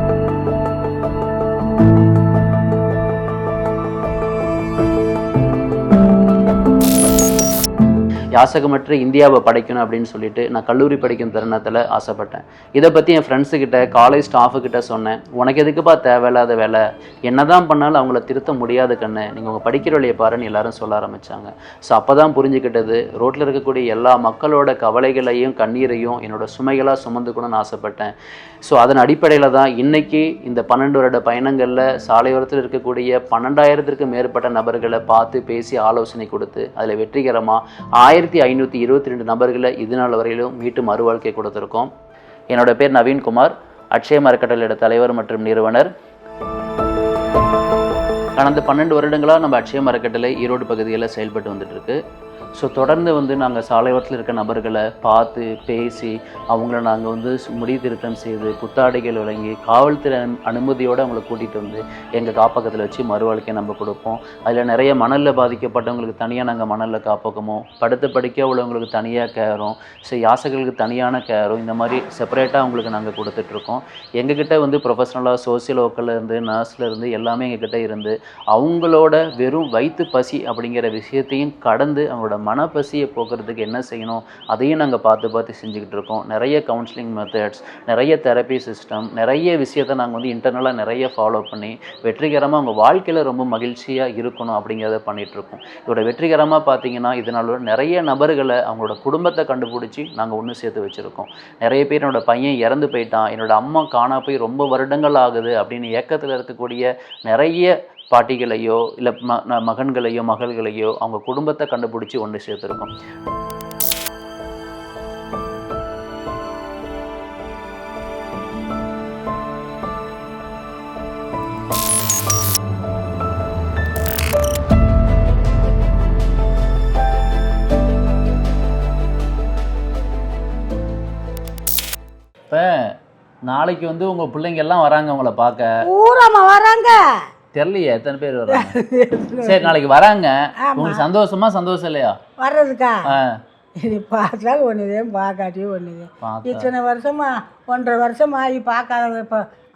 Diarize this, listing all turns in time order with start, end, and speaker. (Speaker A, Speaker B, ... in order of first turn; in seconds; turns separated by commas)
Speaker A: 8.4-28.1, Speaker A: 28.7-41.9, Speaker A: 42.5-45.9, Speaker A: 48.4-52.0, Speaker A: 52.6-112.9, Speaker A: 132.5-132.9, Speaker A: 133.5-135.7, Speaker B: 135.8-137.0, Speaker A: 137.5-138.8, Speaker B: 138.5-139.7, Speaker A: 139.4-142.2, Speaker B: 140.6-141.1, Speaker B: 142.4-143.0, Speaker A: 143.1-143.4, Speaker B: 143.8-149.4, Speaker A: 146.2-146.7